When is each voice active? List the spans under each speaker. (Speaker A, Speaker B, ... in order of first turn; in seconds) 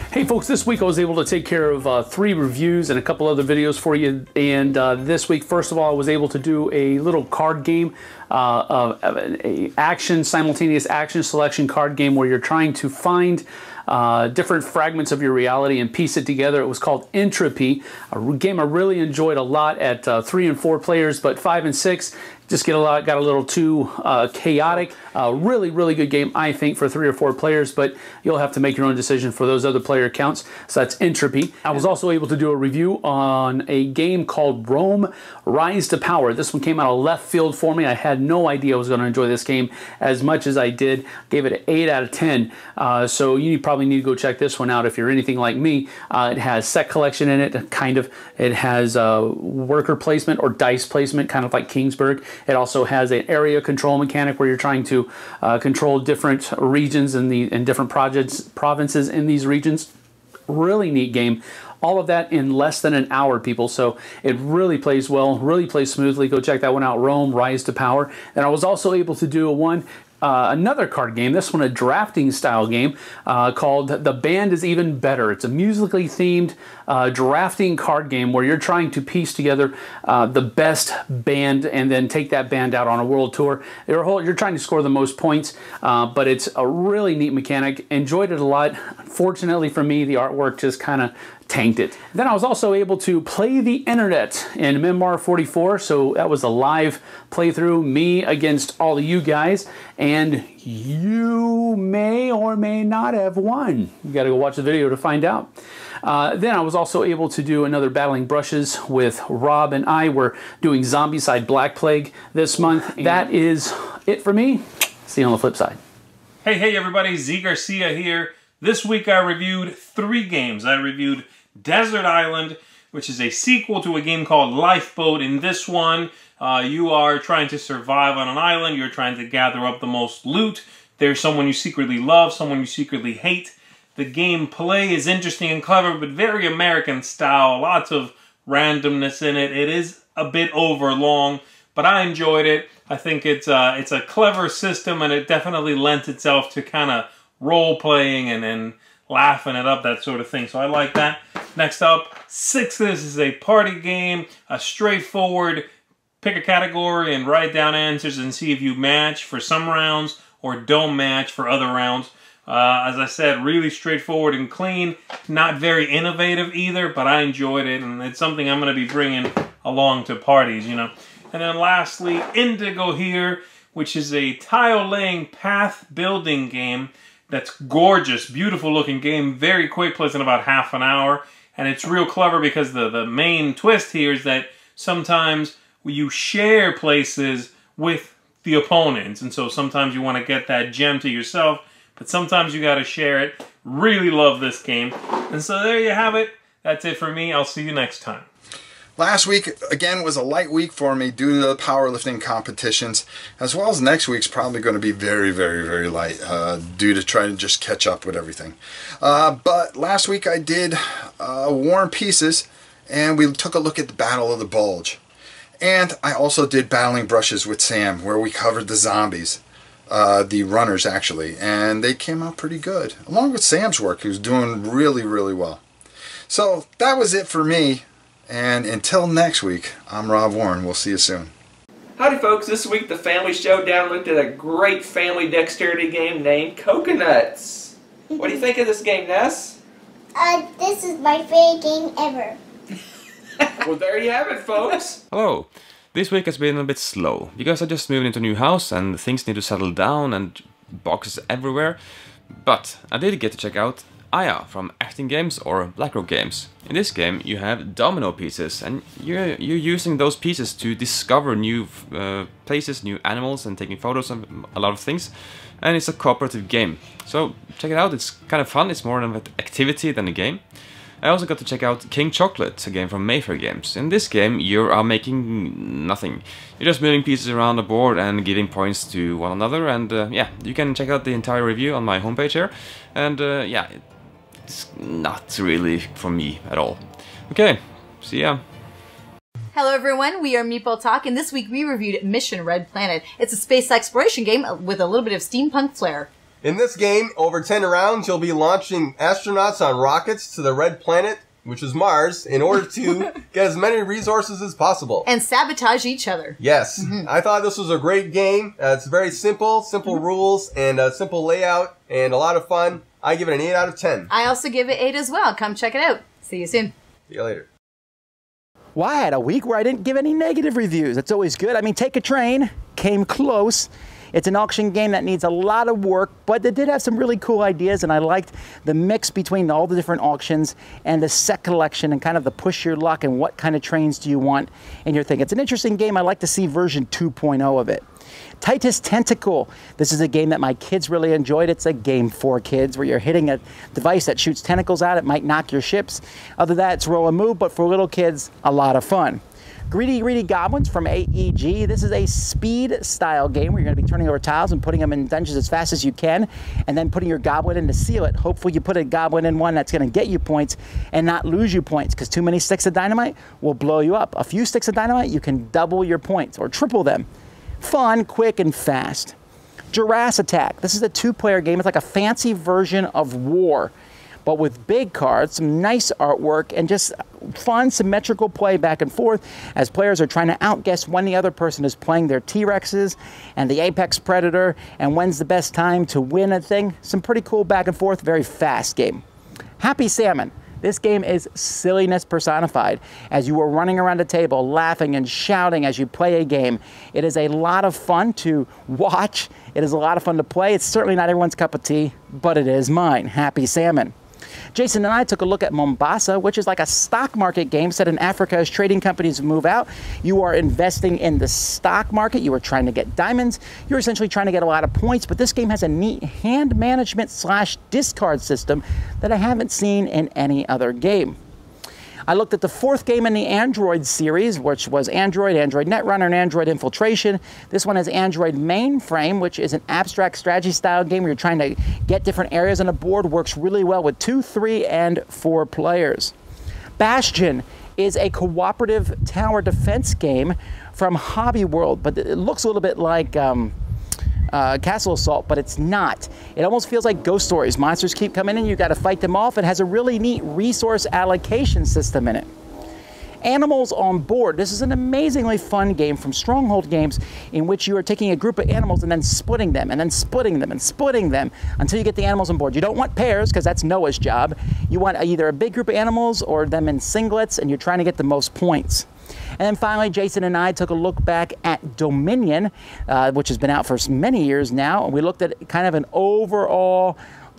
Speaker A: 0.1-59.9, 60.5-105.5, 106.0-115.8
Speaker B: 116.4-155.7, 156.2-198.3
Speaker C: 199.0-215.0, 215.6-225.6, 226.3-231.3
Speaker D: 232.0-237.7, 238.2-239.5, 243.6-245.0
Speaker E: 238.1-238.7, 240.2-242.4, 244.5-244.8
Speaker F: 245.1-251.8, 252.3-270.4, 271.0-283.8, 284.4-288.4
Speaker G: 289.5-296.1, 305.1-307.1, 314.1-316.7
Speaker H: 296.4-305.1, 306.4-314.1, 317.1-317.5
Speaker I: 318.8-337.8, 338.4-367.1, 367.6-369.1, 369.7-373.7, 374.2-389.0, 389.6-403.9, 404.6-421.2, 422.1-436.1, 436.8-443.5, 444.3-452.3, 453.2-468.9, 469.4-477.0